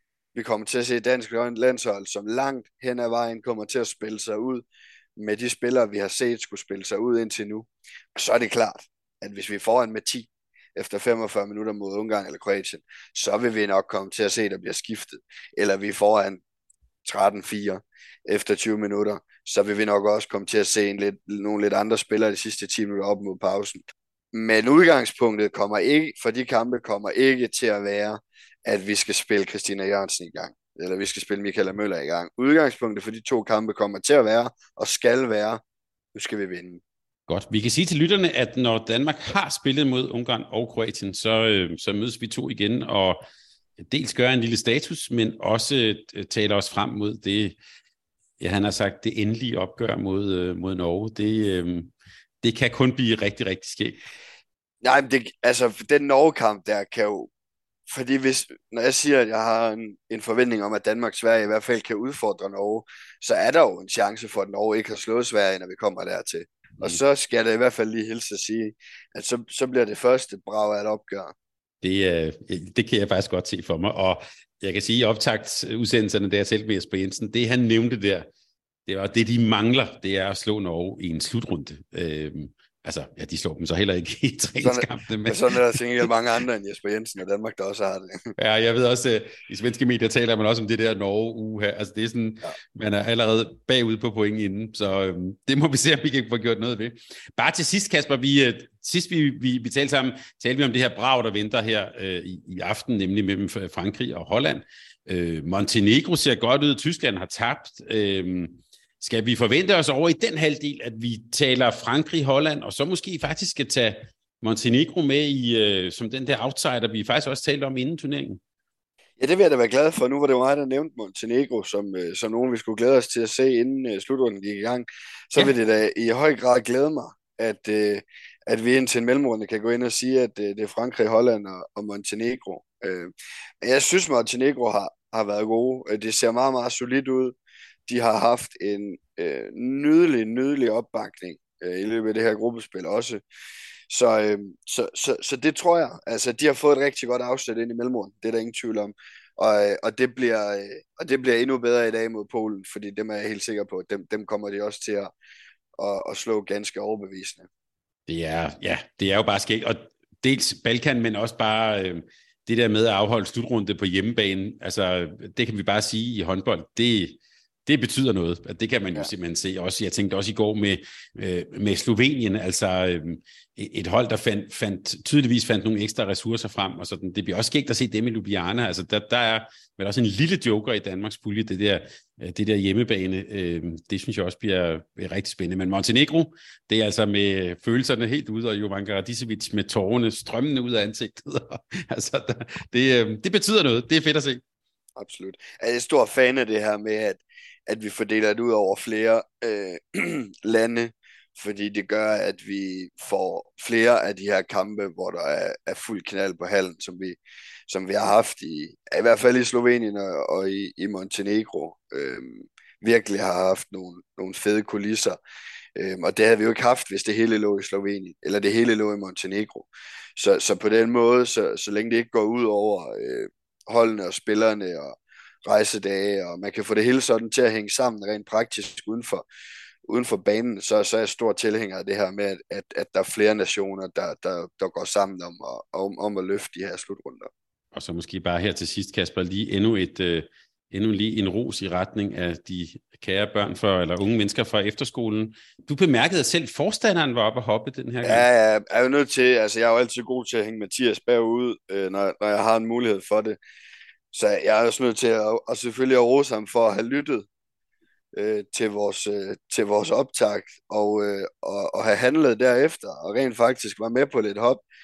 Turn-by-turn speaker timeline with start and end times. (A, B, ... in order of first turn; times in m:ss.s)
0:00.3-0:04.6 A
0:05.2-0:16.4 A
0:17.0-0:35.6 A
0:36.1-0:36.8 A
0:37.3-0:43.2 B
0:43.8-0:47.6 B
0:48.4-0:54.0 B
0:54.8-0:57.3 A
0:57.9-1:11.3 A
1:11.8-1:18.3 B
1:18.9-1:26.1 B
1:24.6-1:28.3 A
1:28.4-1:58.4 B
1:59.2-2:17.4 A
2:17.9-2:23.2 A
2:23.9-2:35.1 A
2:35.8-2:37.5 A
2:38.1-3:14.4 B
3:15.0-3:35.2 A
3:35.8-3:49.2 A
3:49.9-3:57.3 A
3:57.7-4:08.3 B
4:08.0-4:13.4 A
4:14.1-4:17.3 A
4:18.2-4:24.6 A